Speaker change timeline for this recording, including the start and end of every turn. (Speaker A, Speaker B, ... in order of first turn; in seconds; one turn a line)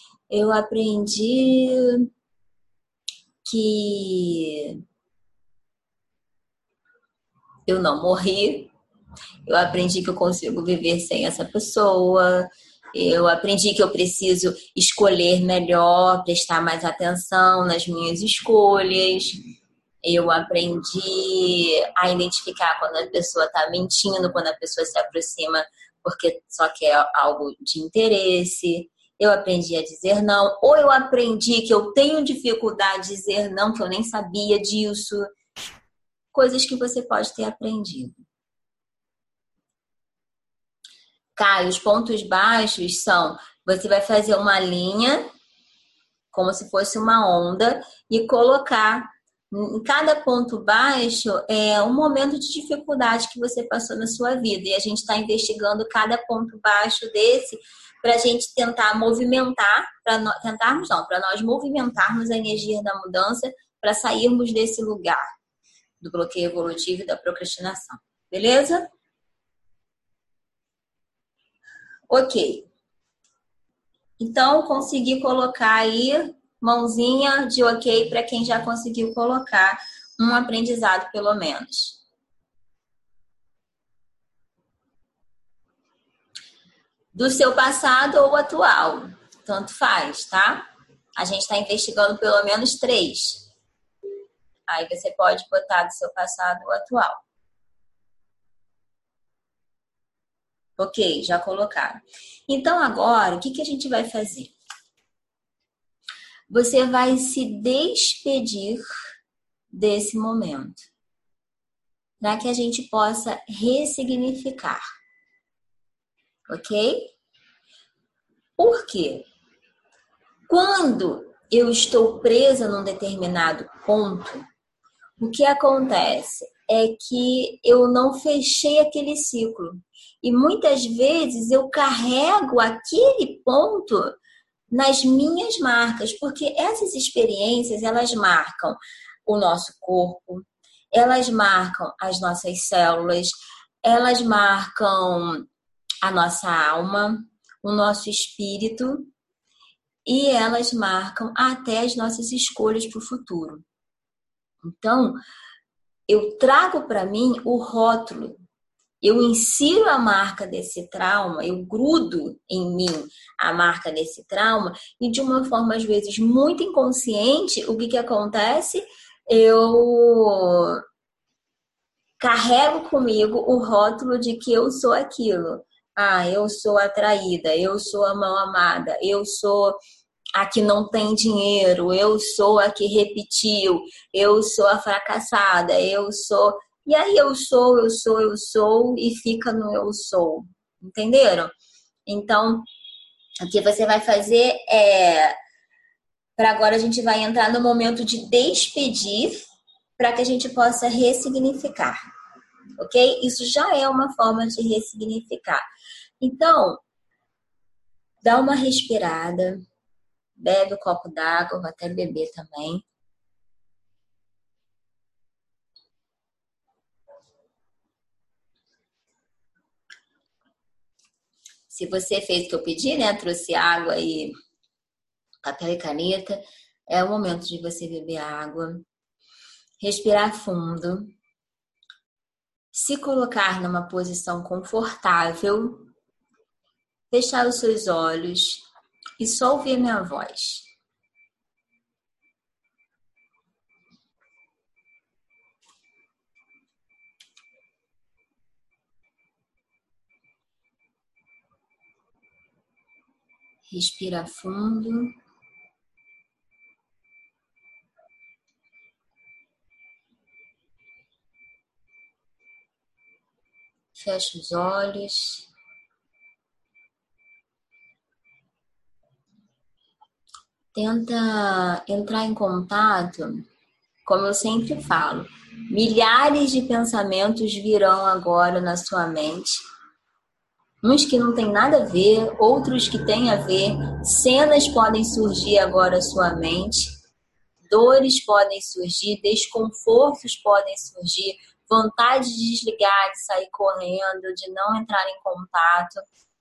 Speaker A: 0.3-2.0
Speaker A: 3.4-4.8
Speaker A: 7.7-8.7
Speaker A: 9.4-19.4
Speaker A: 20.0-35.3
Speaker A: 36.3-38.2
Speaker A: 41.4-45.2
Speaker A: 46.3-65.3
Speaker A: 66.0-68.9
Speaker A: 72.1-72.7
Speaker A: 74.2-82.0
Speaker A: 87.1-93.5
Speaker A: 94.7-97.2
Speaker A: 100.8-104.5
Speaker A: 106.5-108.9
Speaker A: 109.7-110.9
Speaker A: 112.2-114.8
Speaker A: 116.5-117.1
Speaker A: 118.6-119.2
Speaker A: 120.5-124.4
Speaker A: 125.2-134.1
Speaker A: 134.7-145.5
Speaker A: 146.0-149.1
Speaker A: 150.0-153.6
Speaker A: 154.6-155.2
Speaker A: 156.1-158.4
Speaker A: 159.0-170.8
Speaker A: 172.2-179.8
Speaker A: 180.3-191.5
Speaker A: 192.1-192.7
Speaker A: 193.4-195.3
Speaker A: 196.4-199.4
Speaker A: 200.0-202.0
Speaker A: 202.8-205.7
Speaker A: 206.2-206.8
Speaker A: 208.2-209.6
Speaker A: 210.4-212.8
Speaker A: 221.7-224.3
Speaker A: 225.4-228.8
Speaker A: 229.8-231.1
Speaker A: 232.7-235.9
Speaker A: 237.1-238.6
Speaker A: 239.2-240.7
Speaker A: 253.7-255.1
Speaker A: 263.9-265.5
Speaker A: 270.7-273.4
Speaker A: 274.0-279.6
Speaker A: 280.8-286.9
Speaker A: 287.7-296.0